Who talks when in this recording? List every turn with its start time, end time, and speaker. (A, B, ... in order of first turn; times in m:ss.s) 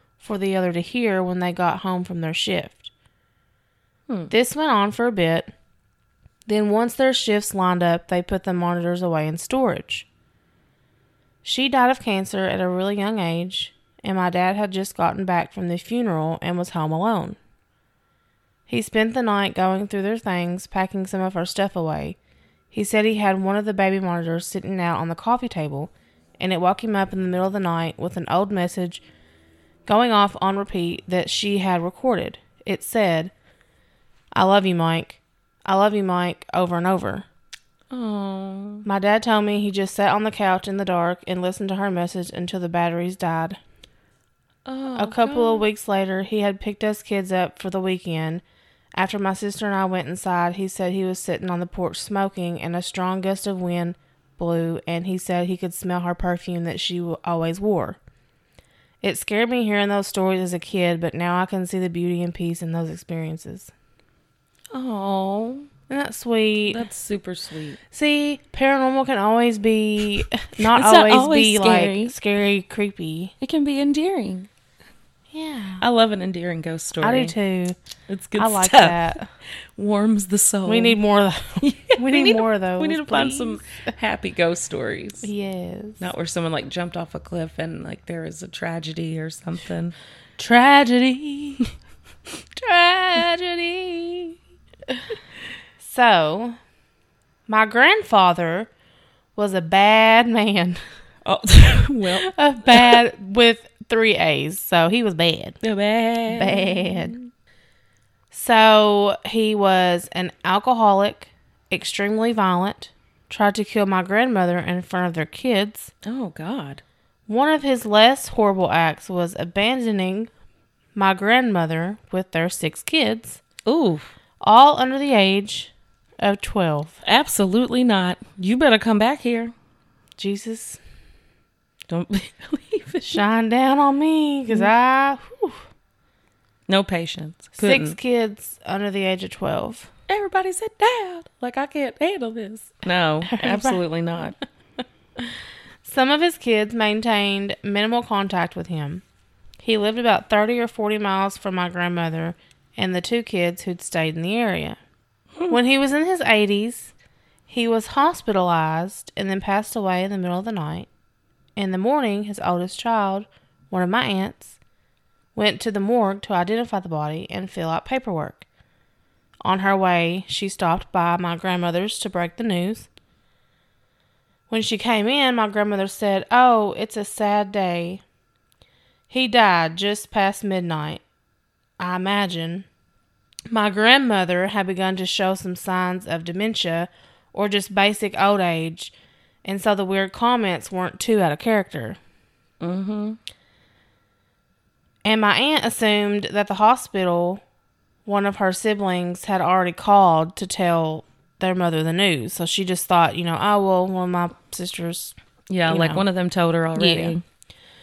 0:00.2-0:02.9 A
0:04.3-0:05.5 A
0:06.5-0:10.1 A
0:11.4-0:17.4 A
0:18.7-0:22.2 A
0:22.7-0:29.0 A
0:29.9-0:33.3 A
0:34.3-0:37.3 A
0:37.9-0:38.9 B
0:38.8-0:43.6 A
0:44.6-0:45.7 B
0:45.0-0:48.4 A
0:49.0-0:58.0 A
0:59.0-1:03.7 A
1:04.7-1:05.7 B
1:05.9-1:06.8 A
1:06.7-1:07.8 B
1:07.9-1:13.3 A
1:10.6-1:12.2 B
1:13.4-1:14.5 B
1:15.3-1:15.8 A
1:15.8-1:17.4 B
1:17.0-1:17.8 A
1:18.1-1:21.0 B
1:18.4-1:19.3 A
1:20.7-1:23.6 A
1:21.6-1:25.3 B
1:25.2-1:26.0 A
1:26.0-1:30.0 B
1:30.4-1:31.7 A
1:32.6-1:34.4 A
1:35.8-1:36.6 A
1:37.5-1:38.7 A
1:39.4-1:40.8 A
1:41.2-1:43.0 B
1:42.1-1:45.6 A
1:45.6-1:47.3 B
1:46.3-1:47.2 A
1:48.3-1:55.9 A
1:56.0-1:56.8 B
1:57.3-2:00.3 A
2:01.0-2:03.4 A
2:03.6-2:04.1 B
2:04.4-2:07.0 A
2:07.0-2:09.5 B
2:10.2-2:10.8 A
2:11.9-2:13.2 B
2:13.1-2:15.6 A
2:16.7-2:18.0 B
2:17.6-2:19.9 A
2:20.1-2:24.4 B
2:23.2-2:23.8 A
2:25.8-2:29.0 A
2:29.6-2:34.8 A
2:35.5-2:36.9 A
2:37.5-2:40.9 A
2:41.6-2:44.6 A
2:45.4-2:48.5 A
2:49.4-2:52.9 A
2:54.5-2:58.0 A
2:59.1-3:01.0 A
3:01.8-3:02.7 A
3:03.5-3:12.0 A
3:12.6-3:13.2 B
3:15.0-3:17.4 A
3:18.1-3:25.2 A
3:25.5-3:27.2 B
3:25.7-3:26.0 A
3:26.8-3:27.2 A